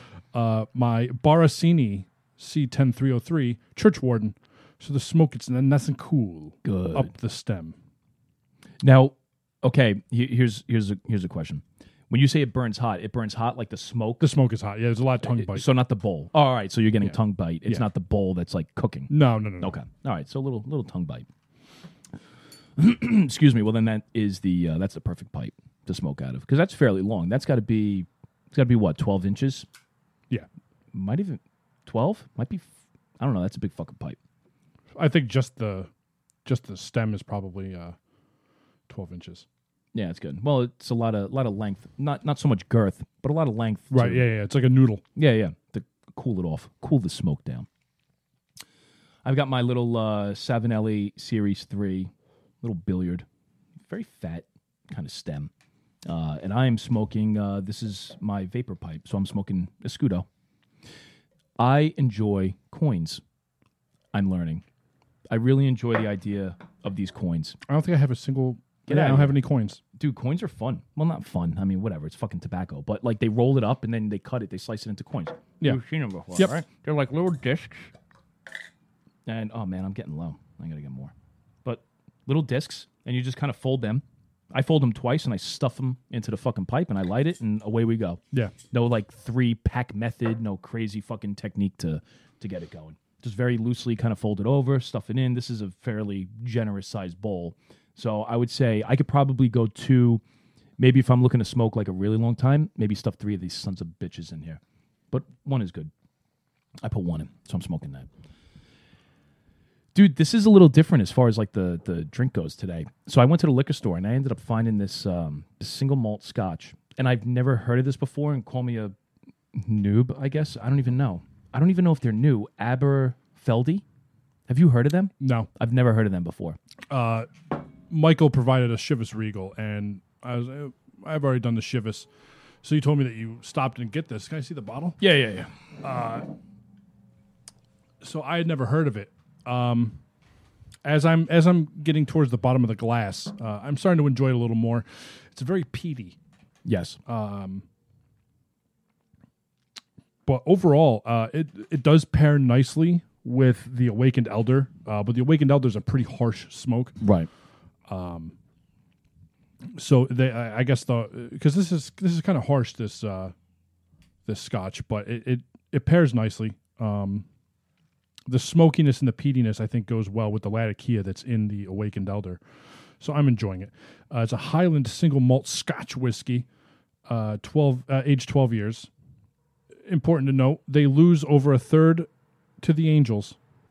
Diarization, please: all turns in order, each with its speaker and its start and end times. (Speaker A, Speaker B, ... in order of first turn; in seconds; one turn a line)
Speaker A: 0.3-7.7
Speaker B: 6.6-7.1
Speaker B: 8.8-14.3
Speaker A: 14.2-15.7
Speaker B: 15.2-21.2
Speaker A: 17.0-17.9
Speaker A: 19.1-19.7
Speaker B: 22.8-29.7
Speaker B: 30.9-32.6
Speaker B: 33.2-34.2
Speaker A: 35.0-35.9
Speaker A: 36.4-38.0
Speaker A: 38.9-39.5
Speaker B: 39.9-44.2
Speaker A: 43.9-45.0
Speaker B: 45.1-47.7
Speaker B: 49.2-53.2
Speaker B: 53.9-55.5
Speaker B: 56.0-60.2
Speaker B: 61.6-63.2
Speaker B: 64.1-64.6
Speaker B: 65.3-67.6
Speaker A: 67.7-69.8
Speaker B: 68.9-69.4
Speaker B: 69.9-77.9
Speaker B: 79.2-81.1
Speaker B: 81.6-88.2
Speaker B: 88.7-100.2
Speaker B: 100.8-104.6
Speaker B: 105.1-105.9
Speaker B: 106.8-108.1
Speaker B: 109.9-118.9
Speaker B: 119.5-123.8
Speaker B: 124.5-126.6
Speaker A: 125.2-125.5
Speaker A: 126.9-127.3
Speaker A: 127.9-132.1
Speaker A: 132.6-135.0
Speaker B: 135.0-135.5
Speaker A: 135.8-136.3
Speaker A: 138.0-140.0
Speaker A: 140.8-146.2
Speaker B: 146.6-147.0
Speaker A: 147.1-147.6
Speaker A: 150.2-157.0
Speaker B: 157.0-157.3
Speaker A: 157.9-158.3
Speaker A: 159.7-163.3
Speaker A: 164.2-167.2
Speaker A: 168.3-172.4
Speaker A: 173.0-176.4
Speaker A: 177.1-178.9
Speaker A: 179.8-182.1
Speaker A: 182.6-183.3